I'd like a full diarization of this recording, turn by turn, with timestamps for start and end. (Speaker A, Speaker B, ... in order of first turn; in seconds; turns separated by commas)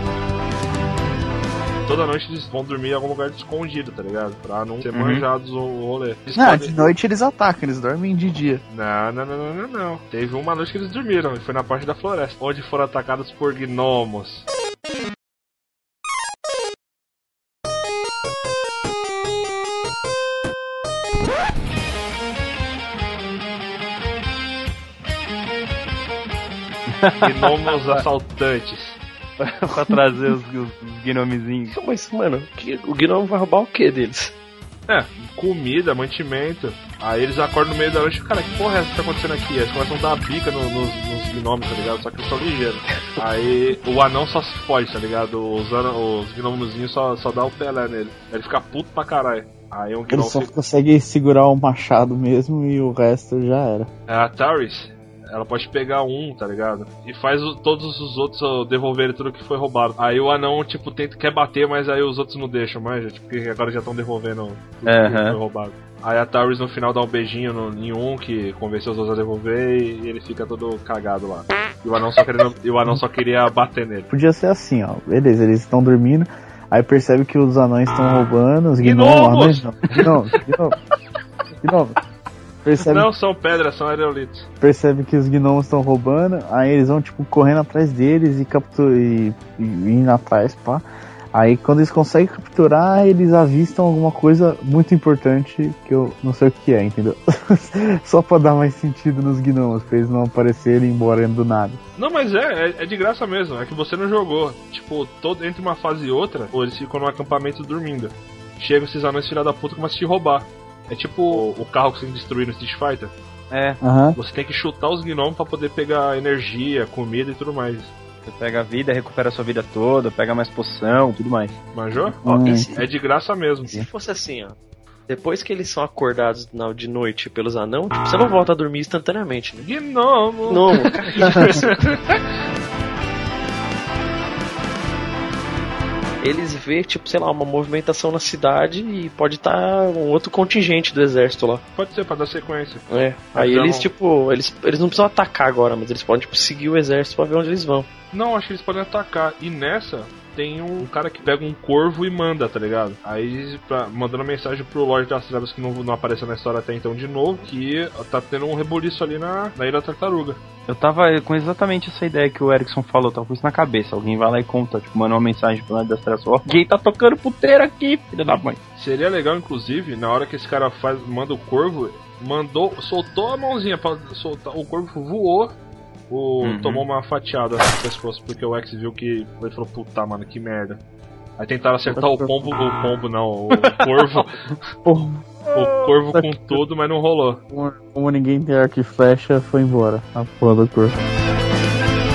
Speaker A: 1.9-6.9, Speaker B: 4.9-5.3, Speaker C: 6.3-8.6, Speaker A: 8.7-14.5, Speaker B: 26.9-28.0, Speaker A: 27.2-29.0, Speaker B: 29.4-31.8, Speaker D: 31.7-34.4, Speaker A: 34.9-50.5, Speaker C: 50.1-53.9, Speaker A: 54.1-74.1, Speaker B: 64.8-65.4, Speaker C: 74.1-80.8, Speaker A: 78.8-79.7, Speaker C: 81.6-82.0, Speaker C: 82.6-83.1, Speaker A: 82.8-84.5, Speaker C: 84.6-101.8, Speaker A: 102.0-113.1, Speaker B: 113.5-113.8, Speaker C: 113.8-114.2, Speaker A: 114.2-117.9, Speaker B: 118.3-121.6, Speaker A: 121.7-123.8, Speaker C: 122.2-122.7, Speaker D: 122.4-122.9, Speaker D: 123.7-124.6, Speaker D: 125.1-129.7, Speaker A: 129.6-132.2, Speaker D: 130.5-131.7, Speaker D: 136.2-141.6, Speaker A: 141.8-143.9, Speaker D: 142.9-147.9, Speaker A: 148.1-160.4, Speaker B: 160.7-168.6, Speaker A: 168.8-175.6, Speaker A: 176.1-180.8, Speaker B: 176.4-176.9, Speaker A: 181.4-184.4, Speaker C: 181.9-182.4, Speaker B: 183.6-183.8, Speaker C: 184.9-185.2, Speaker A: 185.5-187.4, Speaker C: 186.1-186.6, Speaker C: 187.5-191.0